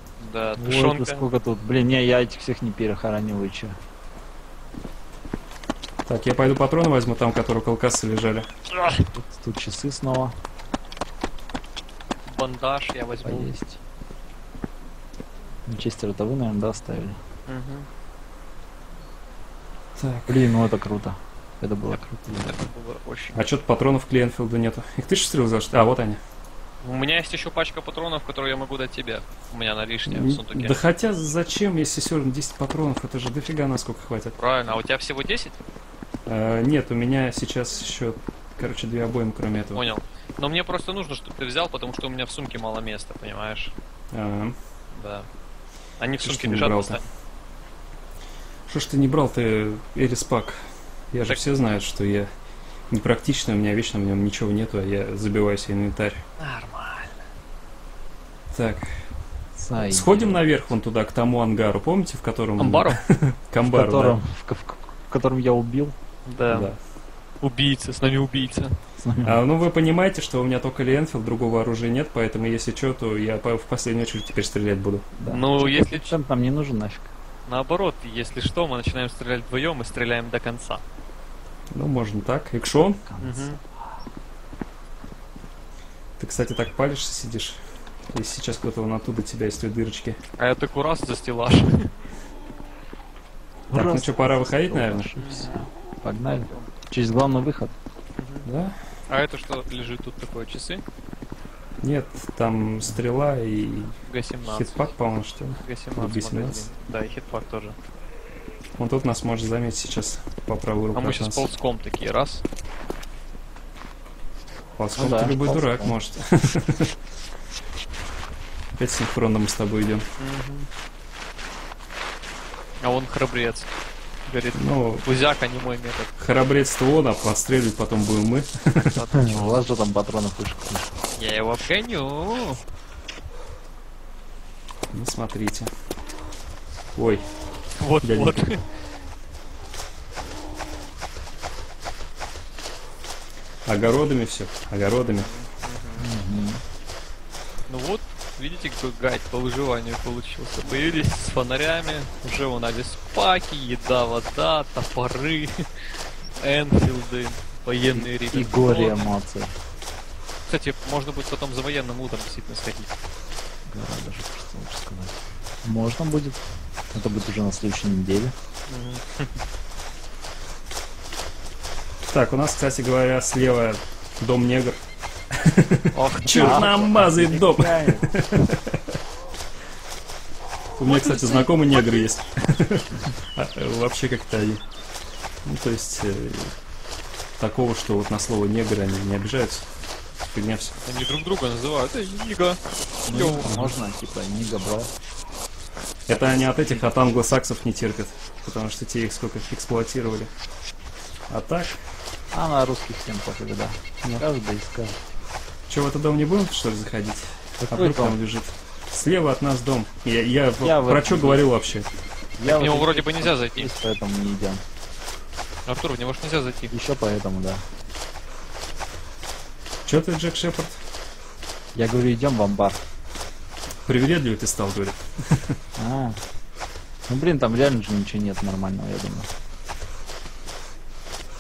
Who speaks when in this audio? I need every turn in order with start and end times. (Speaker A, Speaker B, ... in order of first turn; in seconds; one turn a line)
Speaker A: 0.2-1.2
Speaker B: 0.6-3.8
Speaker C: 6.1-8.5
Speaker A: 8.7-9.0
Speaker B: 9.1-10.3
Speaker A: 12.3-13.5
Speaker B: 13.2-13.8
Speaker B: 15.7-17.2
Speaker A: 17.5-17.9
Speaker C: 19.9-20.6
Speaker B: 20.3-22.6
Speaker A: 21.9-23.4
Speaker C: 23.4-26.2
Speaker A: 26.8-30.8
Speaker C: 30.1-34.4
Speaker A: 34.4-35.6
Speaker C: 36.3-39.8
Speaker A: 39.7-43.7
Speaker C: 44.1-44.6
Speaker A: 44.9-45.3
Speaker A: 46.0-47.0
Speaker C: 46.2-47.0
Speaker C: 48.7-52.3
Speaker C: 52.9-56.2
Speaker A: 56.4-57.2
Speaker C: 58.5-59.1
Speaker B: 59.6-60.4
Speaker C: 59.8-64.2
Speaker A: 62.6-63.0
Speaker B: 63.7-65.9
Speaker A: 66.3-66.7
Speaker C: 66.5-66.8
Speaker A: 67.4-68.7
Speaker B: 69.0-69.4
Speaker C: 69.2-75.1
Speaker B: 75.2-77.1
Speaker A: 75.3-76.2
Speaker A: 77.5-80.8
Speaker C: 81.7-83.0
Speaker B: 83.1-83.5
Speaker A: 83.2-83.6
Speaker C: 86.2-90.2
Speaker A: 90.4-91.9
Speaker B: 93.7-97.7
Speaker C: 93.7-95.1
Speaker A: 95.2-95.6
Speaker A: 98.2-98.5
Speaker C: 98.4-98.8
Speaker A: 99.1-100.8
Speaker C: 101.8-106.7
Speaker A: 104.1-104.8
Speaker A: 105.6-107.8
Speaker C: 108.8-111.5
Speaker A: 110.9-112.4
Speaker C: 114.8-116.9
Speaker B: 114.9-115.9
Speaker C: 118.7-120.0
Speaker A: 120.2-120.7
Speaker A: 122.8-123.7
Speaker A: 124.3-126.1
Speaker C: 124.6-125.0
Speaker C: 126.2-128.9
Speaker A: 128.8-129.6
Speaker B: 129.1-130.9
Speaker A: 131.2-132.6
Speaker C: 134.9-135.7
Speaker C: 136.9-137.2
Speaker A: 137.8-138.6
Speaker C: 138.0-138.4
Speaker C: 143.7-145.3
Speaker A: 145.1-146.1
Speaker B: 146.0-146.6
Speaker A: 147.7-159.1
Speaker B: 157.9-159.5
Speaker A: 160.4-162.9
Speaker B: 163.7-166.4
Speaker B: 166.9-168.3
Speaker A: 168.7-169.4
Speaker C: 172.1-179.0
Speaker A: 175.9-176.7
Speaker B: 176.1-178.4
Speaker C: 180.8-184.6
Speaker A: 180.8-182.0
Speaker C: 185.4-186.5
Speaker C: 187.4-189.7
Speaker C: 190.3-190.8
Speaker A: 190.8-193.5
Speaker B: 193.1-194.9
Speaker C: 193.4-193.7
Speaker C: 196.1-200.3
Speaker A: 196.6-196.9
Speaker C: 201.3-201.8
Speaker B: 202.3-205.0
Speaker C: 205.7-211.9
Speaker B: 207.6-208.2
Speaker B: 210.6-211.4
Speaker B: 212.4-214.6
Speaker A: 212.4-213.7
Speaker A: 215.7-216.7
Speaker B: 216.7-217.6
Speaker C: 219.8-220.8
Speaker B: 221.7-222.8
Speaker C: 223.9-225.6
Speaker B: 225.8-226.2
Speaker B: 227.1-229.3